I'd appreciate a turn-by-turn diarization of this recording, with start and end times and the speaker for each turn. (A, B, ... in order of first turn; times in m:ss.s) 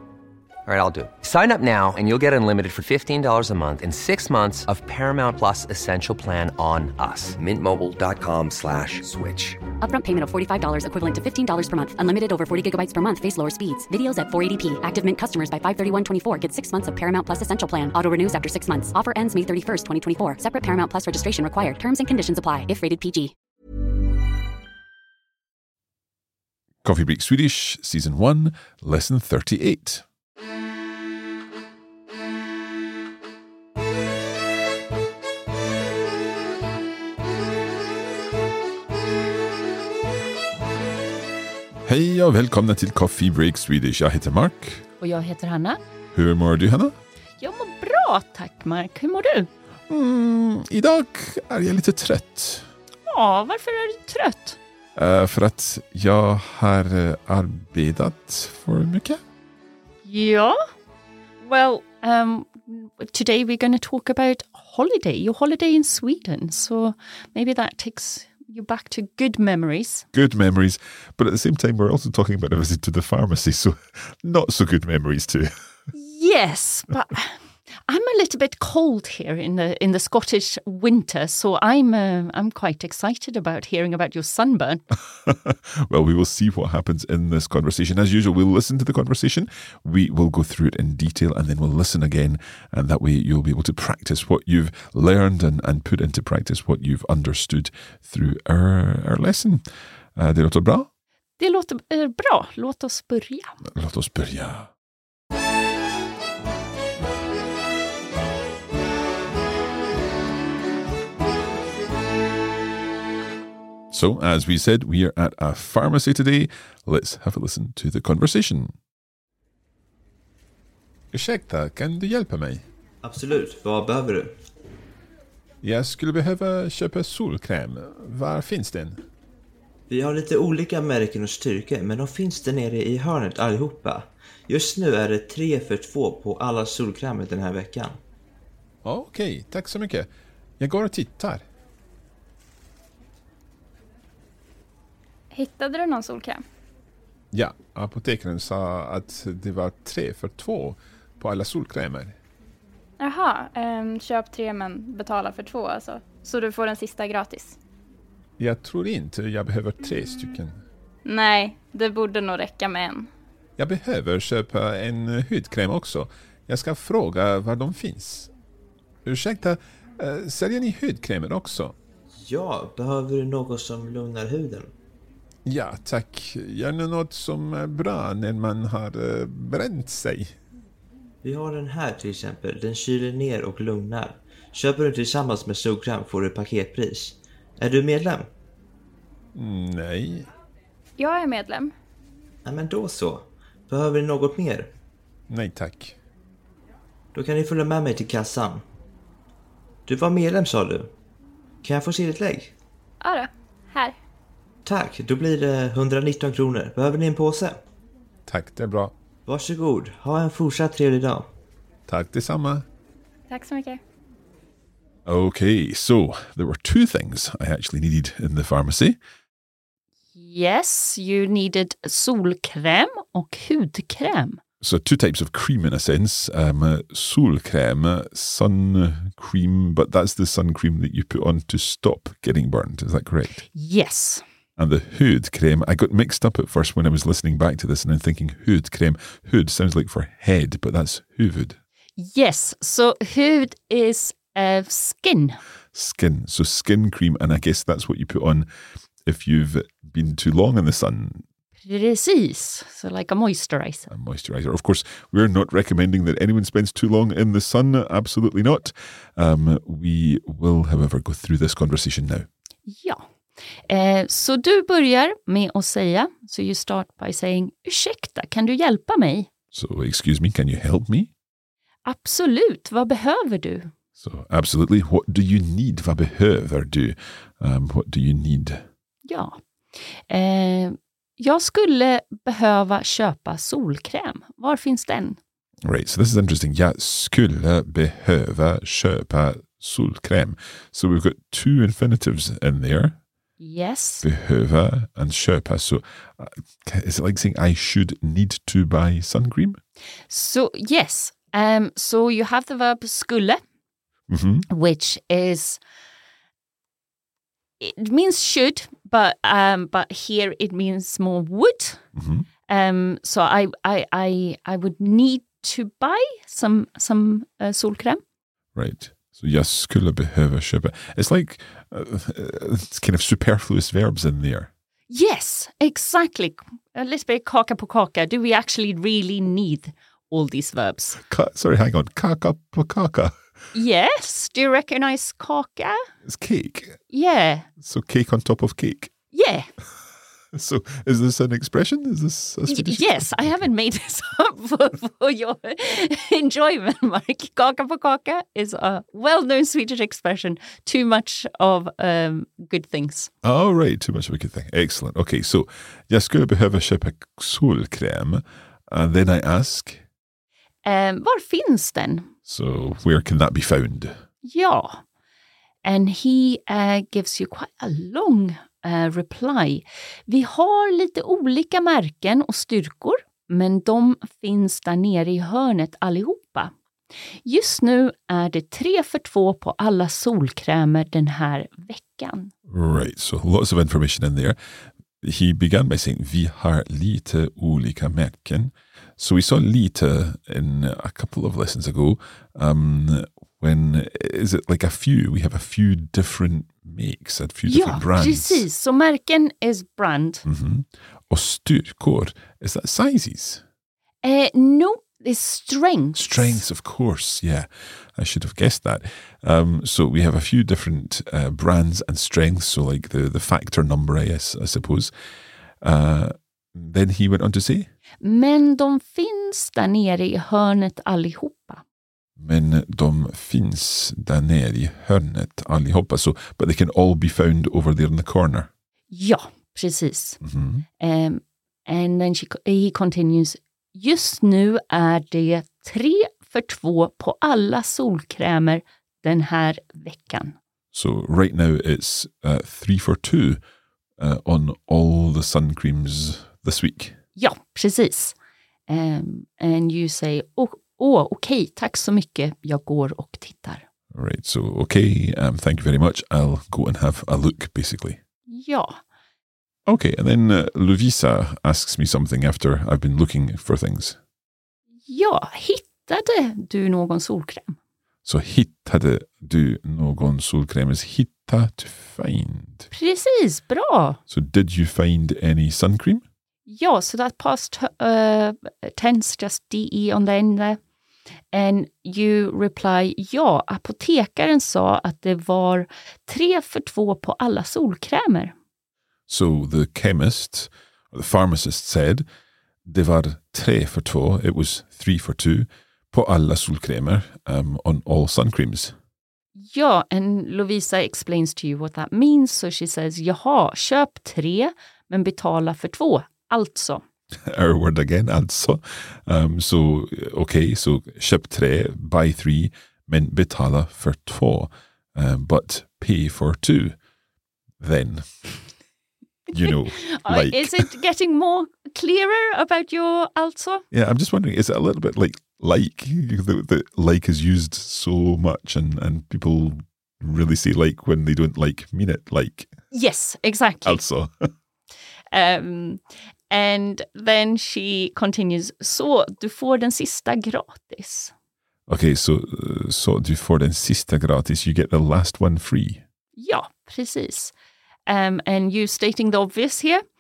0:00.7-0:09.6 A
0:09.8-0:23.3 B
0:26.8-0:30.0 C
0:41.8-0:44.8 C
0:45.0-0:45.8 D
0:46.1-0:47.0 C
0:47.4-0:49.5 D
0:49.9-0:52.7 C
0:53.1-0:54.6 D
0:55.0-0:59.2 C
1:00.0-1:00.6 D
1:01.4-1:10.1 D
1:10.1-1:15.5 C
1:15.9-1:17.4 D
1:17.9-1:24.8 D
1:25.1-1:39.6 C
1:40.2-1:40.9 C
1:41.4-1:43.5 D
1:43.6-1:44.7 C
1:53.9-1:58.7 C
2:01.1-2:02.6 C
2:03.0-2:04.4 E
2:05.6-2:09.0 C
2:09.9-2:18.0 E
2:18.8-2:21.4 C
2:25.3-2:26.4 F
2:27.3-2:32.2 C
2:33.0-2:37.6 F
2:38.4-2:40.6 C
2:41.0-2:43.1 F
2:43.6-2:48.3 C
2:49.0-2:51.8 C
2:52.2-2:54.7 E
2:55.4-3:00.4 C
3:01.2-3:08.3 E
3:09.4-3:10.3 C
3:11.0-3:11.7 F
3:12.4-3:14.7 E
3:15.3-3:16.0 C
3:17.1-3:18.6 E
3:19.9-3:20.9 E
3:21.6-3:22.5 E
3:23.0-3:24.0 F
3:24.7-3:27.6 E
3:28.3-3:28.9 C
3:29.3-3:31.3 E
3:31.9-3:32.7 C
3:33.3-3:33.8 F
3:35.1-3:39.0 C
3:40.2-3:44.4 D
3:44.6-3:53.4 C
3:53.5-3:54.2 D
3:54.6-4:01.6 C
4:02.0-4:05.4 D
4:05.7-4:08.5 C
4:09.0-4:11.2 C
4:11.7-4:13.9 D
4:13.9-4:22.3 C
4:22.7-4:23.0 D
4:23.7-4:29.3 D
4:29.5-4:31.1 C
4:31.8-4:33.7 D
4:34.0-4:38.6 C
4:39.1-4:39.4 D
4:40.1-4:45.2 D
4:45.6-4:53.0 C
4:53.4-4:54.1 D
4:54.0-4:59.6 C
5:00.1-5:03.4 D
5:04.1-5:04.5 C
5:04.5-5:05.6 D
5:07.6-5:11.8 D
5:12.0-5:12.3 C
5:12.5-5:18.0 D
5:18.6-5:24.5 C
5:24.9-5:31.0 D
5:31.0-5:33.2 C
5:33.5-5:35.8 D
5:36.0-5:36.8 C
5:36.9-5:37.5 D
5:37.6-5:38.9 C
5:39.1-5:39.5 D
5:40.3-5:43.5 C
5:42.5-5:53.1 D
5:53.2-5:59.8 C
6:00.6-6:02.1 D
6:02.3-6:04.0 C
6:04.2-6:04.8 D
6:05.6-6:16.5 D
6:17.2-6:22.3 D
6:22.5-6:24.4 C
6:25.0-6:38.5 C
6:37.5-6:40.2 D
6:40.2-6:43.4 C
6:44.0-6:46.4 D
6:46.0-6:54.9 C
6:55.6-6:57.7 C
6:58.0-7:01.6 D
7:02.2-7:08.5 C
7:08.9-7:10.2 D
7:10.2-7:10.6 C
7:10.8-7:20.4 D
7:20.7-7:23.4 C
7:24.0-7:27.0 C
7:27.2-7:28.2 D
7:28.7-7:33.6 D
7:33.9-7:38.0 C
7:38.3-7:38.8 D
7:39.7-7:44.0 C
7:44.9-7:47.6 D
7:48.0-7:52.7 C
7:52.7-7:54.0 D
7:54.1-7:56.0 C
7:56.5-8:00.6 D
8:01.3-8:08.3 D
8:09.1-8:12.0 C
8:12.7-8:18.8 C
8:19.4-8:26.8 D
8:27.3-8:36.8 C
8:37.6-8:38.1 C
8:39.3-8:40.7 C
8:39.5-8:43.6 D
8:43.7-8:52.5 C
8:52.7-8:53.8 D
8:53.6-8:54.3 C
8:55.1-9:01.1 D
9:01.7-9:05.8 C
9:06.2-9:07.3 D
9:07.9-9:09.8 D